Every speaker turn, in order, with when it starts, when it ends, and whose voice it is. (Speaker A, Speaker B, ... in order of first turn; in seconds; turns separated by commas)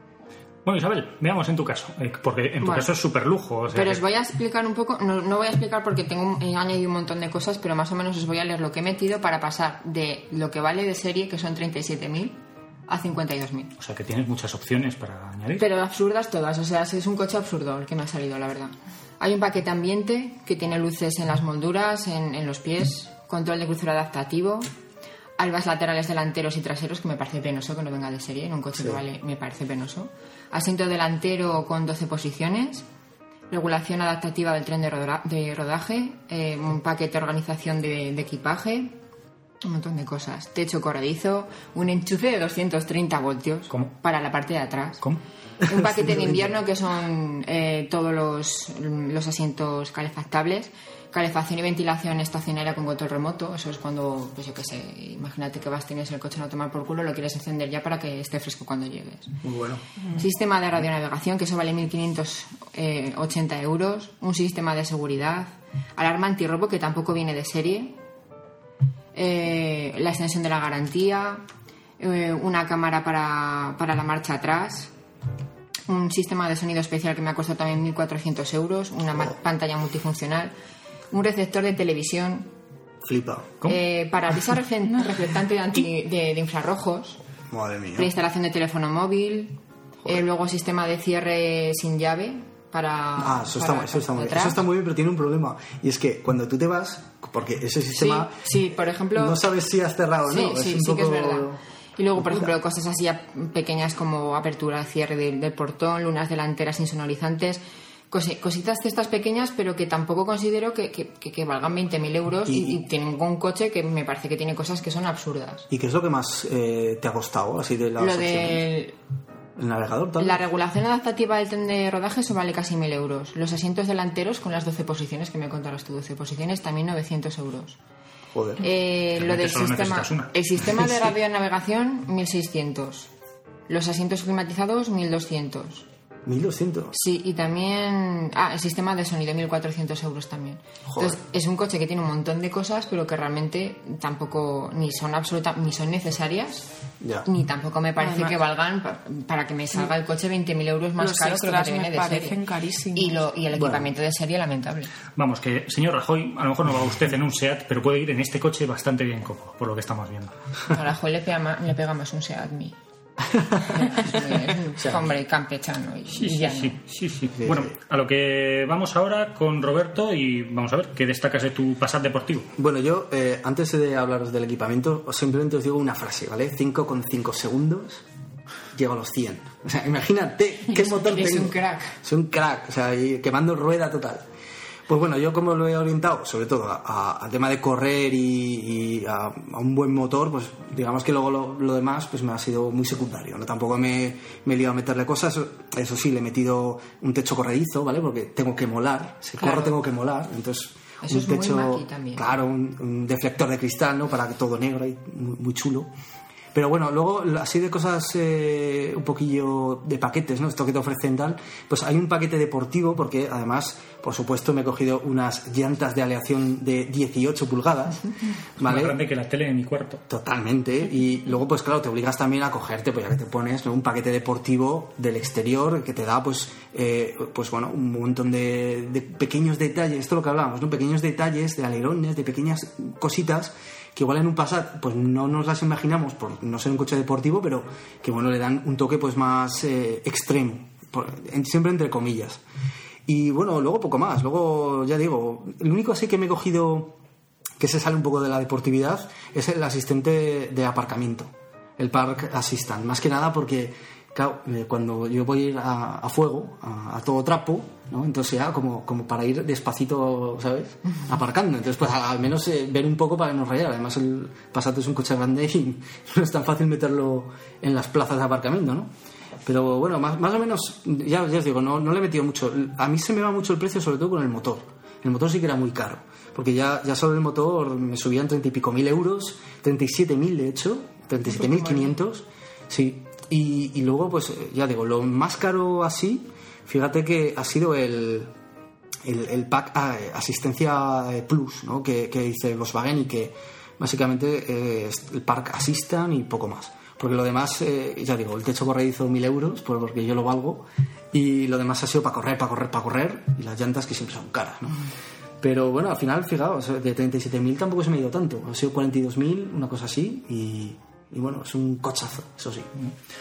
Speaker A: 0.6-4.0, Speaker B: 2.6-2.9, Speaker B: 3.7-13.7, Speaker A: 13.8-15.6, Speaker B: 15.6-24.7, Speaker B: 25.4-32.8, Speaker B: 33.5-38.9, Speaker B: 39.6-45.0, Speaker C: 45.6-46.6, Speaker B: 45.6-59.4, Speaker C: 59.4-59.8, Speaker D: 60.0-60.2, Speaker B: 60.1-68.0, Speaker B: 69.1-71.4, Speaker B: 72.0-74.9, Speaker B: 75.9-80.5, Speaker B: 81.1-82.5, Speaker C: 83.0-83.6, Speaker B: 83.6-87.2, Speaker C: 87.5-88.1, Speaker B: 88.0-94.6, Speaker C: 93.2-98.4, Speaker B: 97.9-99.4, Speaker C: 99.2-101.6, Speaker B: 100.2-115.7, Speaker C: 102.2-102.5, Speaker C: 112.5-112.8, Speaker C: 115.7-118.7, Speaker B: 118.0-119.0, Speaker C: 119.6-120.4, Speaker B: 120.2-127.8, Speaker C: 128.3-128.6, Speaker B: 128.6-133.1, Speaker A: 129.1-130.3, Speaker B: 133.7-135.8, Speaker C: 136.2-137.0, Speaker B: 136.9-146.7, Speaker C: 140.9-141.2, Speaker C: 147.0-147.2, Speaker B: 147.2-152.4, Speaker D: 148.0-148.3, Speaker D: 151.0-153.2, Speaker B: 152.9-154.9, Speaker C: 153.5-153.9, Speaker A: 155.2-160.3, Speaker B: 160.7-162.8, Speaker C: 163.3-163.8, Speaker B: 163.7-166.8, Speaker C: 164.8-165.0, Speaker A: 166.2-172.5, Speaker C: 167.4-167.7, Speaker C: 172.6-178.0, Speaker C: 178.7-184.2, Speaker B: 180.7-182.0, Speaker C: 184.9-205.9, Speaker B: 199.4-199.7, Speaker B: 201.0-202.3, Speaker C: 206.5-218.9, Speaker A: 218.6-220.0, Speaker C: 220.1-242.4, Speaker C: 243.1-247.0, Speaker C: 247.6-268.9, Speaker C: 269.4-288.3, Speaker B: 281.3-281.9, Speaker C: 289.0-304.9, Speaker C: 305.4-312.7